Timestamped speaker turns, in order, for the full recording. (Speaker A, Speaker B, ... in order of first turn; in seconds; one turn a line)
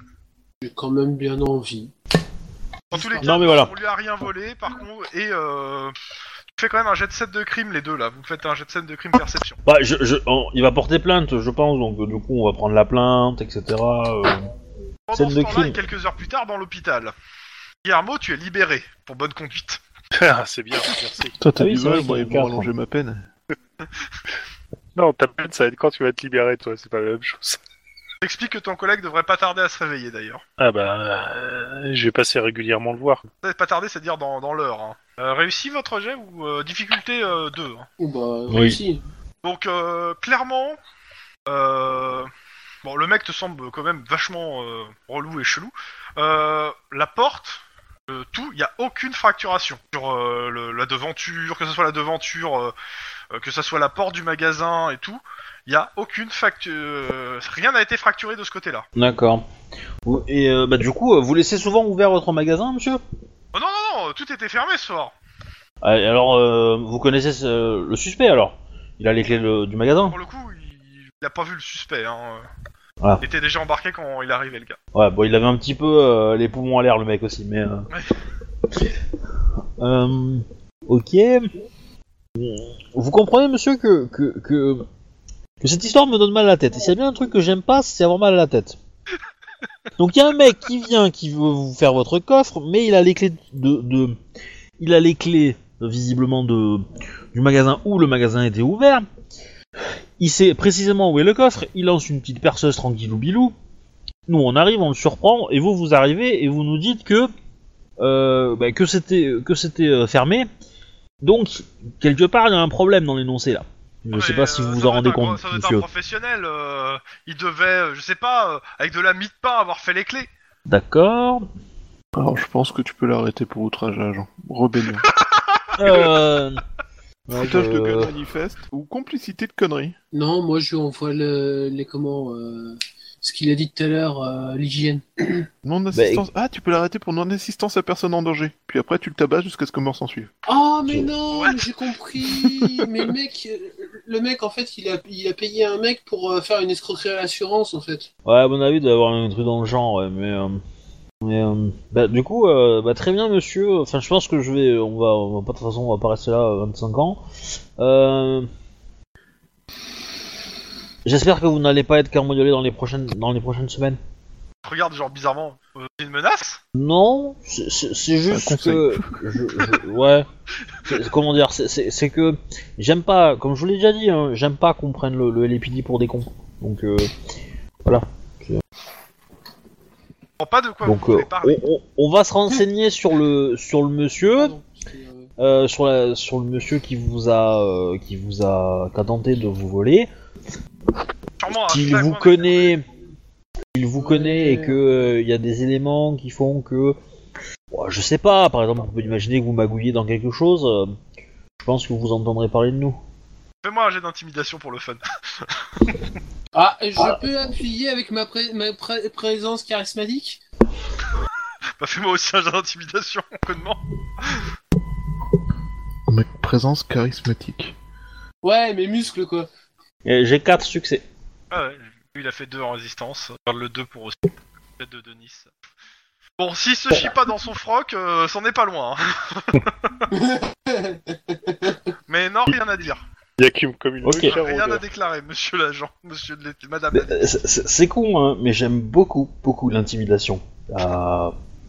Speaker A: 0.6-1.9
Speaker B: 2.9-5.9
Speaker C: 2.9-3.7
Speaker B: 6.5-9.6
Speaker C: 9.7-14.5
Speaker B: 15.1-17.1
Speaker C: 15.1-15.8
Speaker B: 17.8-19.8
Speaker D: 20.1-21.4
Speaker E: 21.4-23.2
Speaker C: 21.6-22.7
Speaker D: 24.9-27.6
Speaker B: 28.2-30.4
Speaker D: 30.6-33.3
Speaker B: 33.4-37.9
Speaker A: 38.0-39.0
Speaker C: 38.5-38.8
Speaker B: 39.4-40.8
Speaker B: 41.5-42.3
Speaker B: 42.8-52.7
Speaker B: 53.3-58.9
Speaker C: 59.0-59.5
Speaker C: 60.0-63.0
Speaker B: 63.5-65.1
Speaker C: 65.8-70.2
Speaker B: 70.0-72.5
Speaker B: 73.2-74.8
Speaker C: 74.9-77.9
Speaker C: 79.8-81.5
Speaker C: 82.4-84.8
Speaker C: 85.6-88.8
Speaker C: 90.0-94.2
Speaker C: 94.8-99.1
Speaker C: 100.2-103.5
Speaker C: 104.3-107.3
Speaker C: 108.0-110.5
Speaker C: 111.2-115.9
Speaker B: 114.1-120.3
Speaker C: 120.7-121.5
Speaker E: 122.1-125.0
Speaker B: 125.2-126.1
Speaker C: 125.8-126.6
Speaker C: 127.3-128.1
Speaker E: 127.3-129.9
Speaker A: 130.1-135.5
Speaker E: 135.6-140.3
Speaker C: 135.9-136.3
Speaker A: 140.5-148.1
Speaker B: 141.3-141.7
Speaker E: 142.3-142.9
Speaker C: 148.2-150.6
Speaker C: 151.2-157.2
Speaker C: 157.8-158.5
Speaker C: 161.1-164.0
Speaker B: 164.6-166.6
Speaker C: 166.8-170.3
Speaker E: 168.2-169.7
Speaker C: 170.9-177.1
Speaker C: 177.8-178.6
Speaker B: 180.4-181.7
Speaker C: 180.8-184.6
Speaker A: 184.3-185.3
Speaker C: 185.4-190.1
Speaker B: 191.4-192.8
Speaker C: 191.5-192.8
Speaker C: 193.7-197.0
Speaker A: 194.0-195.1
Speaker C: 197.7-200.9
Speaker C: 201.6-203.0
Speaker B: 203.6-205.9
Speaker A: 206.5-210.4
Speaker B: 211.8-214.4
Speaker E: 216.1-217.8
Speaker A: 218.4-219.5
Speaker C: 220.1-221.0
Speaker B: 221.5-224.2
Speaker B: 224.8-225.5
Speaker B: 226.4-230.1
Speaker A: 230.1-231.8
Speaker B: 232.1-233.0
Speaker D: 233.4-234.8
Speaker C: 234.0-234.4
Speaker B: 234.3-237.3
Speaker C: 236.9-241.3